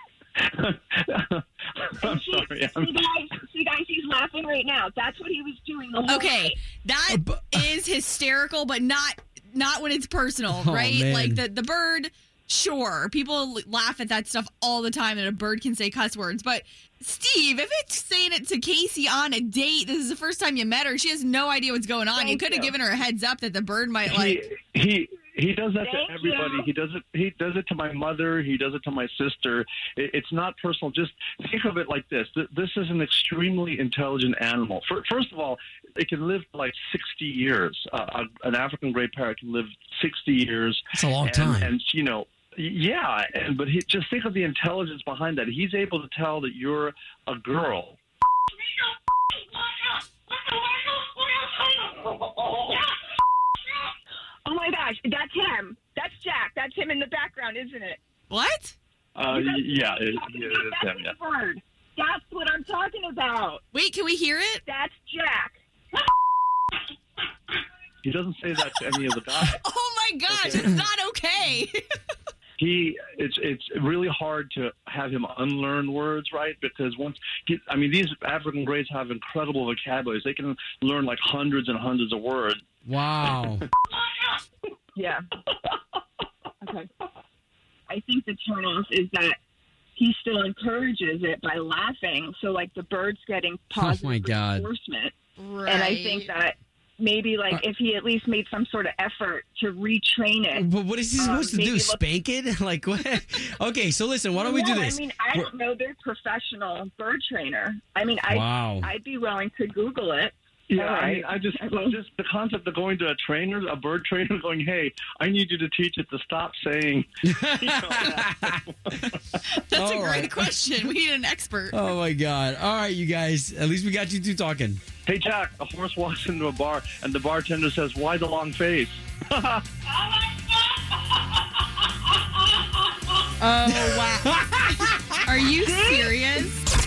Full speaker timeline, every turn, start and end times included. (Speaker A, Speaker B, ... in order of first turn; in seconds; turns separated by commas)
Speaker A: 0.3-3.0, Speaker B: 1.9-6.6, Speaker C: 6.1-24.4, Speaker D: 7.1-7.7, Speaker D: 10.5-11.4, Speaker B: 22.1-22.7, Speaker A: 24.1-48.0, Speaker B: 25.8-26.7, Speaker D: 40.9-41.7, Speaker B: 50.4-52.9, Speaker B: 54.5-58.0, Speaker C: 58.3-58.7, Speaker A: 59.1-61.1, Speaker B: 59.3-63.6, Speaker C: 63.7-64.6, Speaker B: 64.7-66.0, Speaker A: 68.0-69.6, Speaker C: 69.4-71.8, Speaker A: 70.3-70.8, Speaker A: 72.6-82.6, Speaker D: 82.8-83.6, Speaker A: 84.0-84.3, Speaker B: 85.0-85.2, Speaker B: 86.6-86.9, Speaker B: 87.9-89.4, Speaker B: 90.0-95.1, Speaker D: 93.8-94.7, Speaker C: 95.4-96.3, Speaker B: 95.7-100.6, Speaker D: 100.5-105.5, Speaker B: 101.2-102.0, Speaker B: 104.3-112.0, Speaker D: 108.3-108.9, Speaker A: 110.7-119.4, Speaker D: 117.2-118.6, Speaker C: 119.4-121.9, Speaker D: 119.7-120.5, Speaker D: 121.7-124.8, Speaker A: 125.0-129.6, Speaker C: 133.4-136.6, Speaker D: 133.7-135.2, Speaker B: 135.6-136.5